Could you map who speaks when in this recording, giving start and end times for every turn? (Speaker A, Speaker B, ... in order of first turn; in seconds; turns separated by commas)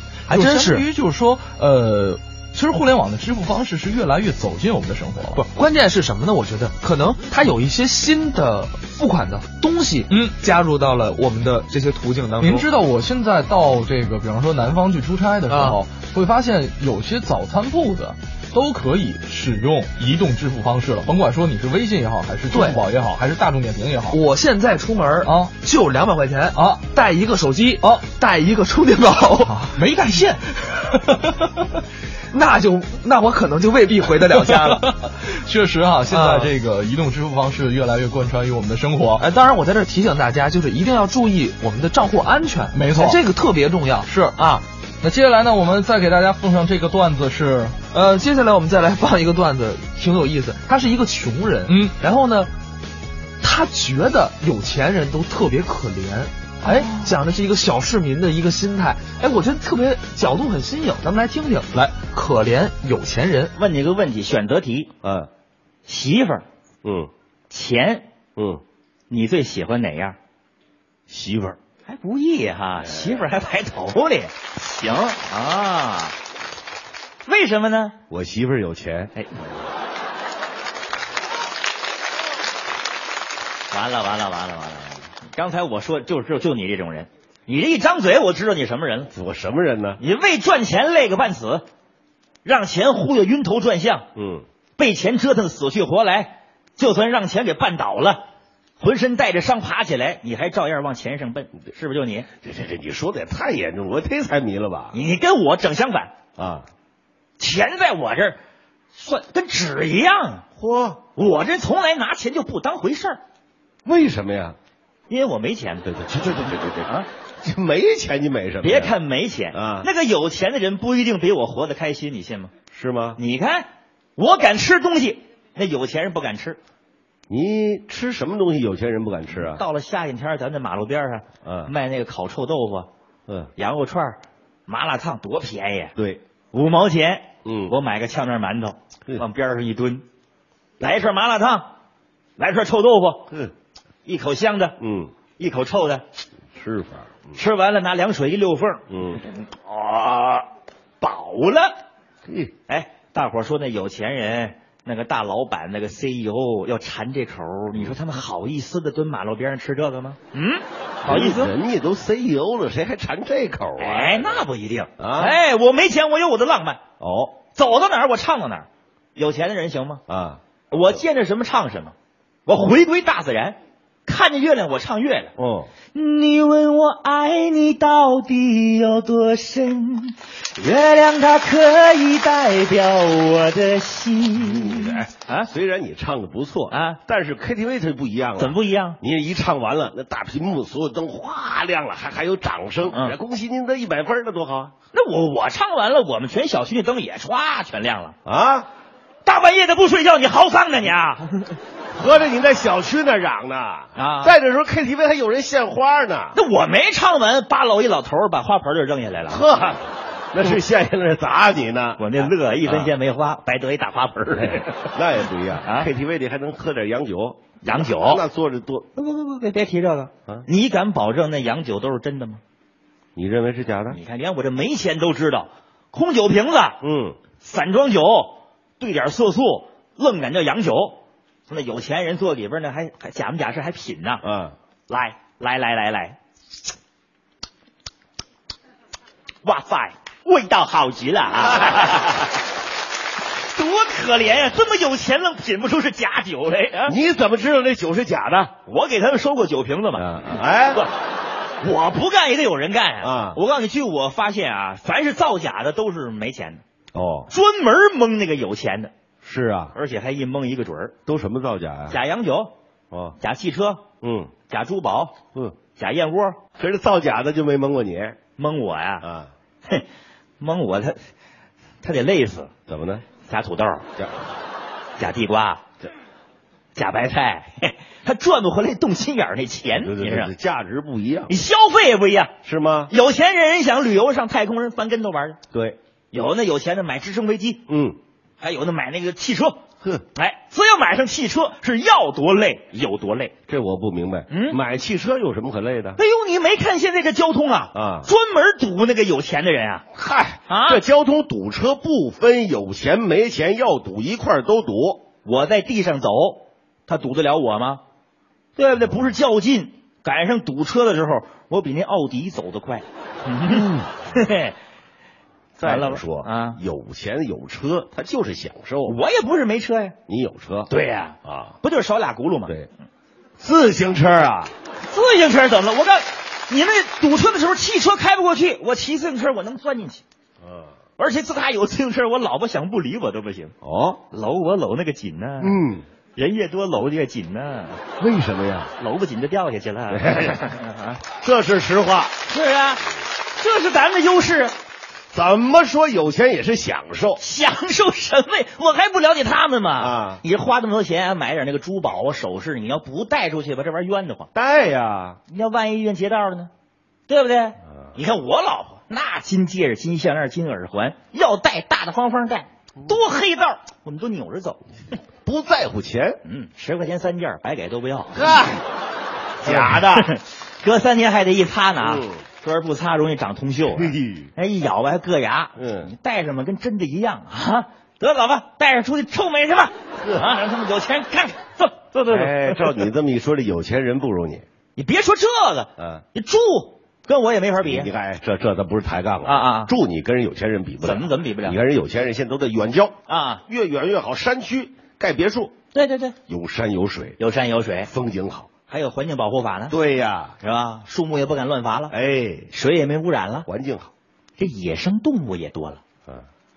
Speaker A: 0.3-0.9, Speaker B: 0.3-5.4, Speaker A: 5.3-12.7, Speaker B: 12.4-24.2, Speaker A: 15.5-15.8, Speaker A: 22.5-22.8, Speaker A: 24.1-29.7, Speaker B: 25.2-25.5, Speaker B: 26.5-26.8, Speaker B: 29.4-31.3, Speaker A: 32.3-34.9, Speaker B: 34.3-39.2, Speaker A: 36.1-36.5, Speaker A: 39.2-44.6, Speaker B: 42.7-43.2, Speaker B: 44.1-44.4, Speaker B: 45.0-47.8, Speaker A: 47.9-52.5, Speaker B: 51.7-52.0, Speaker A: 53.4-63.5, Speaker B: 56.7-57.1, Speaker C: 63.6-64.9, Speaker D: 65.0-65.3, Speaker C: 65.9-66.5, Speaker D: 66.8-67.1, Speaker C: 67.5-68.1, Speaker D: 68.4-68.6, Speaker C: 69.1-70.2, Speaker D: 71.1-71.6, Speaker C: 71.9-76.2, Speaker C: 77.2-78.0, Speaker D: 78.1-79.1, Speaker C: 83.7-89.1, Speaker D: 89.1-90.0, Speaker C: 90.0-91.7, Speaker C: 92.5-94.1, Speaker D: 94.2-94.5, Speaker C: 94.8-98.2, Speaker C: 98.8-102.3, Speaker D: 102.4-105.0, Speaker C: 104.9-106.1, Speaker D: 106.4-106.7, Speaker C: 107.4-108.4, Speaker C: 109.0-110.5, Speaker D: 110.6-111.0, Speaker C: 111.2-113.2, Speaker D: 113.8-114.6, Speaker C: 115.1-115.9, Speaker D: 115.8-119.0, Speaker C: 118.6-122.5, Speaker D: 119.5-119.9, Speaker D: 122.7-123.2, Speaker C: 123.2-126.6, Speaker D: 127.3-129.6, Speaker C: 129.4-132.9, Speaker D: 131.4-131.7, Speaker C: 133.6-135.9, Speaker D: 136.0-136.2, Speaker C: 136.5-140.1, Speaker D: 137.4-137.7, Speaker C: 140.8-141.7, Speaker C: 142.4-143.3, Speaker C: 144.1-144.8, Speaker D: 144.8-145.1, Speaker C: 145.4-146.0, Speaker D: 146.6-147.4, Speaker C: 147.3-150.5, Speaker D: 148.9-149.2, Speaker C: 151.0-151.8, Speaker D: 152.2-152.5, Speaker C: 152.7-161.5, Speaker D: 161.0-164.4, Speaker C: 163.8-166.8, Speaker D: 165.0-165.4, Speaker D: 167.0-167.4, Speaker C: 167.5-170.0, Speaker D: 170.1-170.4, Speaker C: 170.7-171.9, Speaker C: 172.5-175.3, Speaker D: 175.4-175.7, Speaker C: 175.9-185.5, Speaker D: 184.4-194.7, Speaker C: 186.7-187.0, Speaker C: 188.4-189.0, Speaker C: 192.9-193.2, Speaker C: 194.9-198.2, Speaker D: 198.2-198.7, Speaker C: 199.2-201.3, Speaker D: 201.9-206.4, Speaker C: 204.0-204.3, Speaker C: 206.3-209.4, Speaker D: 209.3-212.9, Speaker C: 212.0-214.9, Speaker D: 214.4-218.9, Speaker C: 215.6-215.9, Speaker C: 217.6-218.2, Speaker C: 219.0-222.4, Speaker D: 223.2-224.0, Speaker C: 223.9-226.8, Speaker D: 226.8-227.2, Speaker C: 227.4-234.2, Speaker D: 234.2-234.6, Speaker C: 234.9-236.2, Speaker C: 239.4-242.3, Speaker C: 243.5-247.0, Speaker D: 246.9-248.6, Speaker C: 248.7-250.9, Speaker D: 250.0-250.8, Speaker C: 251.6-256.6, Speaker D: 253.0-253.4, Speaker D: 256.9-257.3, Speaker C: 257.3-258.9, Speaker D: 259.2-259.7, Speaker C: 259.7-260.9, Speaker D: 261.1-262.0, Speaker C: 261.9-262.5, Speaker D: 262.9-263.2, Speaker C: 263.2-263.9, Speaker D: 264.0-264.3, Speaker C: 264.5-265.2, Speaker C: 265.8-266.4, Speaker D: 266.6-268.2, Speaker C: 268.4-269.1, Speaker D: 269.0-269.3, Speaker C: 270.4-271.0, Speaker C: 271.8-272.5, Speaker D: 272.7-273.1, Speaker C: 273.2-273.9, Speaker C: 275.0-275.6, Speaker C: 276.8-280.3, Speaker D: 279.7-281.4, Speaker C: 281.3-282.3, Speaker D: 282.4-282.9, Speaker C: 282.9-285.4, Speaker C: 286.1-287.6, Speaker D: 287.7-288.0, Speaker C: 288.4-289.6, Speaker C: 290.1-293.3, Speaker D: 293.5-296.0, Speaker C: 294.3-294.6, Speaker C: 296.0-299.9, Speaker D: 297.7-298.1, Speaker D: 299.9-305.1, Speaker C: 300.5-300.8, Speaker C: 305.2-307.8, Speaker C: 308.6-314.6, Speaker D: 308.8-309.1, Speaker D: 313.5-313.9, Speaker D: 315.6-319.0, Speaker C: 315.6-316.6, Speaker C: 318.9-320.0, Speaker D: 320.1-320.7, Speaker C: 320.7-322.5, Speaker D: 321.2-321.6, Speaker D: 323.4-324.5, Speaker C: 324.8-330.0, Speaker D: 330.4-330.7, Speaker C: 331.0-333.5, Speaker D: 333.6-334.0, Speaker C: 334.1-335.6, Speaker D: 335.4-335.9, Speaker C: 336.2-337.8, Speaker D: 338.0-338.7, Speaker C: 338.8-341.0, Speaker D: 339.9-340.4, Speaker D: 341.2-342.1, Speaker C: 342.3-342.8, Speaker C: 343.4-344.6, Speaker D: 345.1-347.2, Speaker C: 347.2-354.3, Speaker D: 349.8-350.2, Speaker D: 354.3-355.2, Speaker C: 355.3-356.5, Speaker C: 357.1-364.6, Speaker D: 365.2-366.2, Speaker C: 366.2-368.3, Speaker D: 368.1-368.6, Speaker D: 369.4-370.1, Speaker C: 369.4-382.9, Speaker D: 371.8-372.2, Speaker D: 373.7-374.3, Speaker D: 375.6-375.9, Speaker D: 382.1-384.4, Speaker C: 384.8-387.9, Speaker D: 385.8-386.0, Speaker D: 387.6-393.0, Speaker C: 389.3-389.7, Speaker C: 390.8-391.6, Speaker C: 393.1-393.4, Speaker D: 393.5-395.5, Speaker C: 395.7-396.2, Speaker D: 396.3-397.2, Speaker C: 397.2-397.9, Speaker D: 397.9-398.5, Speaker C: 398.7-399.8, Speaker D: 399.7-400.4, Speaker C: 400.4-402.0, Speaker D: 401.9-402.5, Speaker C: 402.5-403.5, Speaker D: 403.5-403.9, Speaker C: 404.4-405.8